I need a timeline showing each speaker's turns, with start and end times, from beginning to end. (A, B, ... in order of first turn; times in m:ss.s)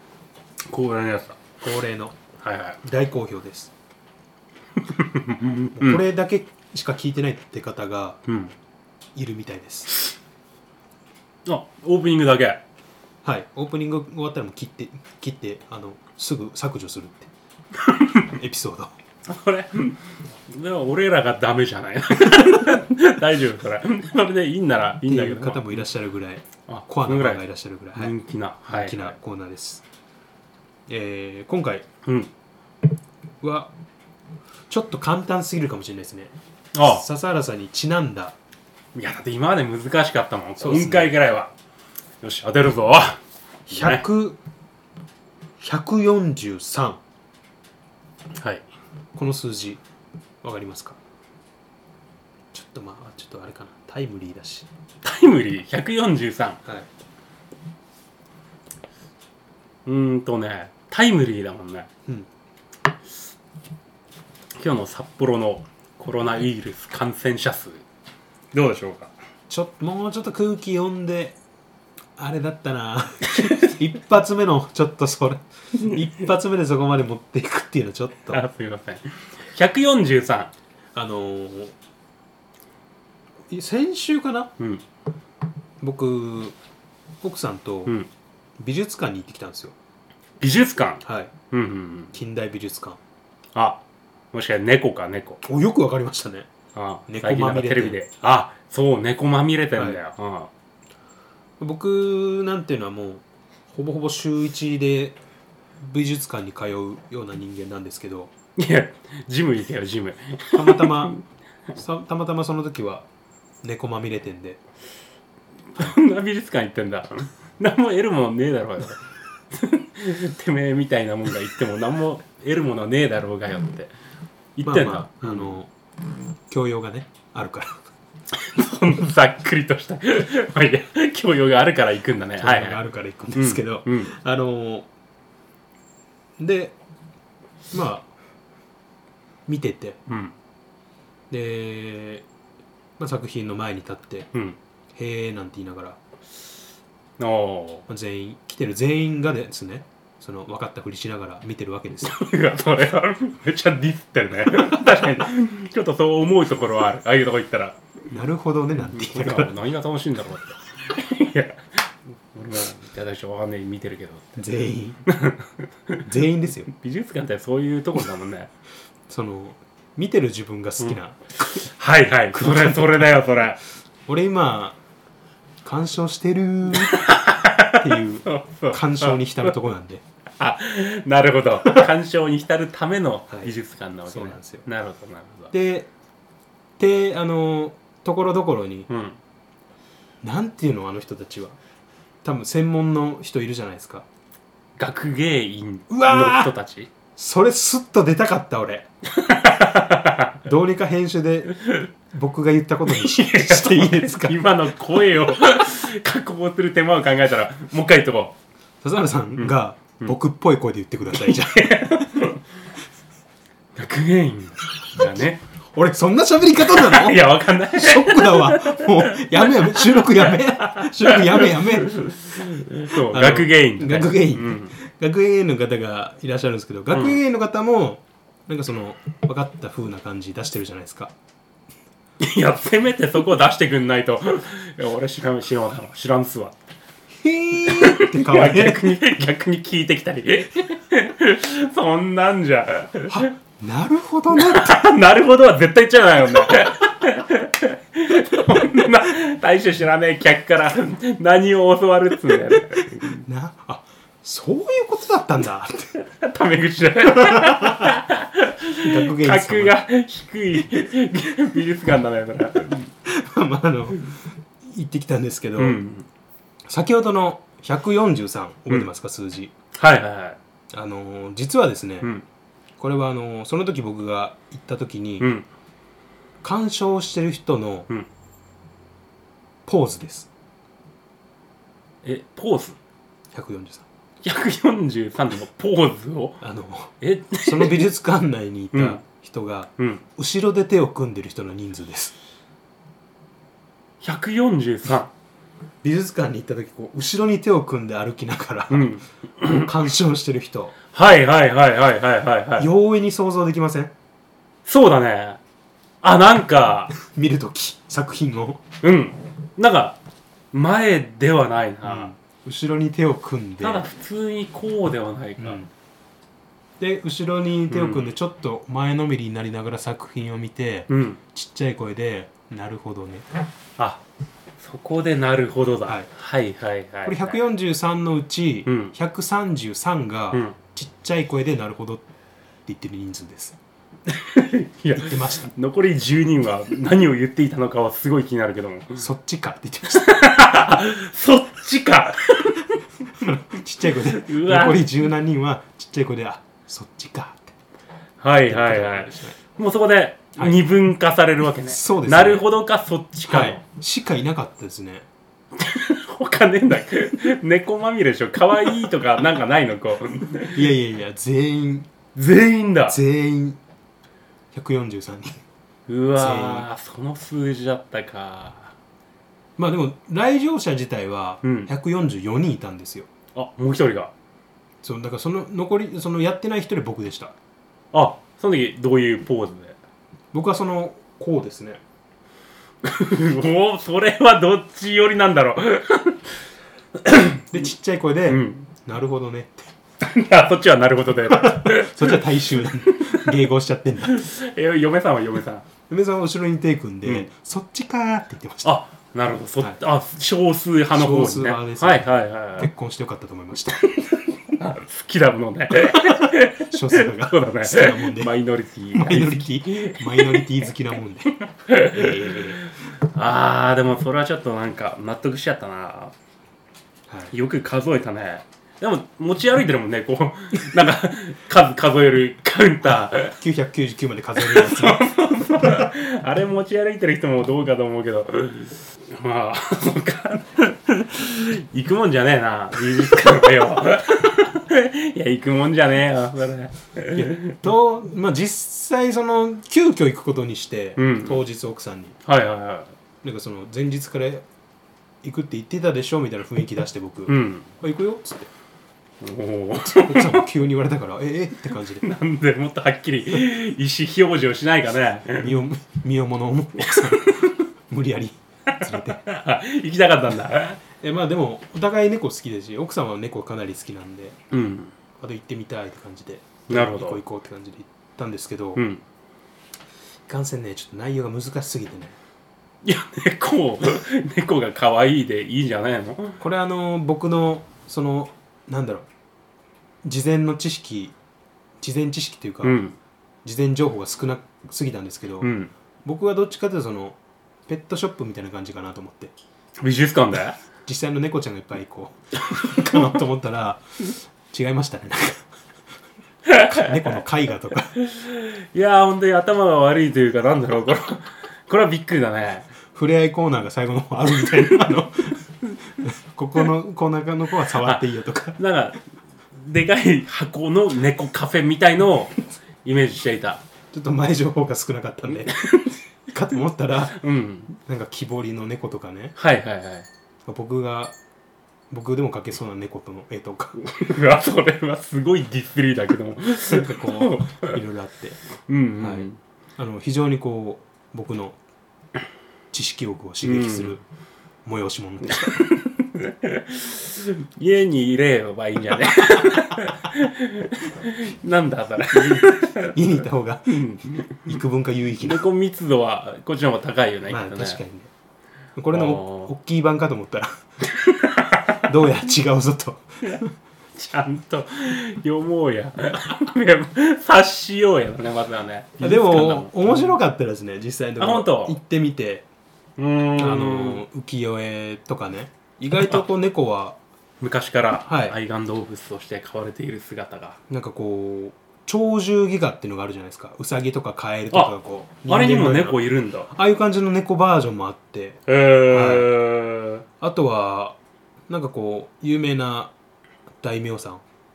0:00.7-0:01.4 A
0:01.6-0:02.2 B
0:02.4-0:02.8 A
0:02.8-0:03.7 B
0:04.8-0:06.0 A
0:05.8-0:08.2 B
0:08.3-0:08.5 A
0:09.2-0:09.9 B
0:11.5-0:12.6 A
0:13.2-0:17.3 B
0:17.8-0:18.3 A
0:18.3-0:19.0 B
0:19.3-0:25.8 A
0:25.0-0:28.2 B
0:26.7-0:27.4 A
0:28.0-0:29.2 A
0:28.7-0:29.8 B
0:30.9-0:31.9 B
0:32.0-0:32.3 A
0:33.4-0:33.7 B
0:34.7-0:38.4 B
0:36.8-0:37.0 A
0:39.0-0:41.5 A
0:40.6-0:41.1 B
0:42.2-0:44.0 A
0:43.7-0:44.4 B
0:45.6-0:47.0 B
0:48.4-0:48.6 A
0:49.1-0:49.8 B
0:50.4-0:51.0 B
0:52.5-0:54.7 B
0:55.0-0:56.6 A
0:59.9-1:01.9 A
1:04.6-1:07.8 A
1:08.5-1:09.1 A
1:09.5-1:11.4 B
1:12.2-1:18.4 B
1:18.3-1:20.5 A
1:21.0-1:21.7 B
1:23.5-1:24.5 B
1:25.8-1:26.6 B
1:27.2-1:28.0 B
1:28.6-1:29.7 B
1:30.4-1:32.1 A
1:31.0-1:31.3 B
1:32.1-1:33.0 B
1:33.6-1:35.4 A
1:35.4-1:36.5 B
1:36.7-1:40.5 A
1:37.1-1:38.0 B
1:41.6-1:45.2 B
1:45.8-1:48.3 B
1:48.6-1:51.2 A
1:50.5-1:51.1 B
1:51.8-1:53.1 B
1:53.6-1:54.6 B
1:55.8-1:59.0 A
1:59.5-2:03.9 A
2:04.6-2:05.6 A
2:04.6-2:05.7 B
2:06.5-2:07.9 B
2:08.3-2:12.8 A
2:12.4-2:14.9 B
2:13.4-2:14.1 A
2:16.4-2:16.8 B
2:17.7-2:18.1 B
2:19.5-2:20.0 B
2:20.1-2:20.3 A
2:21.3-2:22.2 B
2:23.0-2:24.3 B
2:24.3-2:24.6 A
2:24.9-2:26.0 B
2:27.2-2:27.9 A
2:27.9-2:32.1 B
2:32.0-2:37.8 A
2:38.1-2:39.5 B
2:38.9-2:44.4 A
2:44.4-2:45.0 B
2:45.1-2:46.0 A
2:46.1-2:46.7 B
2:46.7-2:48.5 A
2:49.1-2:51.5 B
2:50.8-2:53.6 A
2:52.3-2:53.2 B
2:54.1-2:54.8 B
2:55.6-2:57.1 B
2:56.8-2:59.5 A
2:57.7-3:00.0 B
3:00.4-3:05.5 A
3:04.1-3:04.7 B
3:05.5-3:05.9 B
3:06.8-3:08.9 B
3:08.9-3:09.2 A
3:10.2-3:11.6 B
3:12.2-3:14.1 B
3:14.8-3:16.9 A
3:15.9-3:16.5 B
3:17.2-3:18.9 B
3:19.2-3:20.4 A
3:20.4-3:24.4 B
3:22.9-3:28.4 A
3:28.8-3:32.1 B
3:29.4-3:30.2 A
3:31.1-3:32.4 A
3:33.8-3:35.4 A
3:35.7-3:42.1 B
3:36.7-3:44.7 A
3:42.9-3:51.1 B
3:46.9-3:47.2 A
3:52.2-3:56.6 A
3:57.2-3:59.0 B
3:57.7-4:03.3 A
4:03.1-4:04.9 B
4:04.3-4:13.2 A
4:13.2-4:16.0 B
4:16.0-4:22.9 A
4:17.2-4:17.9 B
4:18.8-4:19.8 B
4:23.0-4:25.8 B
4:25.6-4:26.1 A
4:26.7-4:29.5 B
4:29.8-4:30.4 A
4:30.7-4:32.1 B
4:32.8-4:35.3 B
4:35.2-4:35.5 A
4:36.4-4:37.9 B
4:39.7-4:40.3 B
4:42.0-4:42.8 A
4:43.3-4:43.8 B
4:44.2-4:46.4 A
4:46.4-4:52.1 B
4:47.0-4:47.8 A
4:48.7-4:49.0 A
4:49.8-4:50.0 A
4:54.0-4:55.1 A
4:55.8-4:58.9 B
4:58.7-4:59.7 A
4:59.4-5:00.8 B
5:00.9-5:02.7 A
5:02.6-5:03.9 B
5:04.7-5:05.4 A
5:06.0-5:06.9 A
5:07.0-5:08.6 B
5:08.8-5:10.0 A
5:10.5-5:12.1 A
5:11.8-5:13.9 B
5:13.6-5:15.7 A
5:15.4-5:15.7 B
5:16.8-5:23.3 B
5:17.7-5:18.1 A
5:20.9-5:21.2 A
5:24.6-5:27.4 A
5:27.0-5:32.1 B
5:28.7-5:29.0 A
5:32.7-5:33.6 B
5:34.1-5:39.0 A
5:35.0-5:35.5 B
5:39.0-5:40.1 B
5:39.9-5:42.8 A
5:43.2-5:47.6 B
5:43.9-5:44.9 A
5:48.2-5:53.6 A
5:48.5-5:49.4 B
5:50.4-5:50.6 B
5:51.6-5:52.5 B
5:53.3-5:55.1 B
5:55.6-6:00.7 A
6:00.5-6:01.9 B
6:02.2-6:03.0 A
6:02.9-6:03.6 B
6:04.5-6:05.4 B
6:05.9-6:08.7 A
6:06.2-6:06.7 B
6:09.6-6:13.1 B
6:11.4-6:11.7 A
6:13.4-6:14.1 A
6:14.8-6:17.3 B
6:17.9-6:19.8 A
6:20.3-6:21.8 B
6:22.8-6:26.3 A
6:27.1-6:27.4 A
6:27.5-6:29.7 B
6:28.3-6:28.7 A
6:30.0-6:32.2 A
6:31.3-6:34.2 B
6:33.0-6:33.3 A
6:34.0-6:35.7 A
6:35.9-6:38.8 B
6:37.0-6:37.3 A
6:38.6-6:42.7 A
6:40.9-6:43.9 B
6:44.4-6:50.5 A
6:45.9-6:48.3 B
6:48.9-6:52.6 B
6:51.7-6:56.1 A
6:57.3-7:03.4 A
7:03.3-7:05.0 B
7:04.4-7:17.6 A
7:17.2-7:22.2 B
7:21.0-7:21.4 A
7:22.3-7:22.9 A
7:23.2-7:24.4 B
7:25.2-7:28.5 B
7:27.3-7:27.7 A
7:29.2-7:30.5 A
7:29.8-7:32.0 B
7:32.0-7:35.5 A
7:35.4-7:39.2 B
7:36.8-7:37.5 A
7:38.7-7:40.8 A
7:41.0-7:44.4 B
7:44.5-7:44.9 A
7:45.2-7:48.8 B
7:46.7-7:47.2 A
7:48.8-7:49.0 A
7:50.3-7:52.2 B
7:52.8-7:56.4 A
7:56.4-7:59.1 B
8:00.0-8:01.1 B
8:01.8-8:02.8 B
8:02.6-8:03.0 A
8:03.4-8:05.5 B
8:05.4-8:05.7 A
8:06.0-8:09.3 B
8:09.8-8:10.6 A
8:10.9-8:15.5 B
8:12.6-8:13.0 A
8:16.5-8:17.1 A
8:16.6-8:17.9 B
8:18.0-8:22.7 A
8:22.9-8:28.6 B
8:27.8-8:29.0 A
8:29.5-8:33.6 A
8:33.9-8:35.5 B
8:35.5-8:36.0 A
8:36.3-8:39.4 B
8:37.1-8:37.7 A
8:39.4-8:40.1 A
8:40.5-8:41.2 B
8:41.9-8:43.8 B
8:43.8-8:47.8 A
8:46.7-8:48.4 B
8:48.7-8:49.4 A
8:49.0-8:51.6 B
8:52.7-8:54.0 B
8:53.4-8:54.0 A
8:54.6-8:55.6 B
8:55.3-9:04.6 A
9:02.1-9:05.5 B
9:05.2-9:07.8 A
9:07.3-9:08.1 B
9:08.8-9:10.6 B
9:08.9-9:09.5 A
9:10.9-9:11.9 A
9:11.8-9:13.5 B
9:14.0-9:20.2 A
9:19.0-9:22.5 B
9:21.2-9:21.8 A
9:23.0-9:24.0 A
9:23.4-9:27.0 B
9:27.4-9:30.6 A
9:28.1-9:28.4 B
9:30.7-9:39.3 B
9:34.5-9:36.5 A
9:38.5-9:40.0 A
9:40.2-9:41.0 B
9:41.5-9:42.9 B
9:43.6-9:44.2 B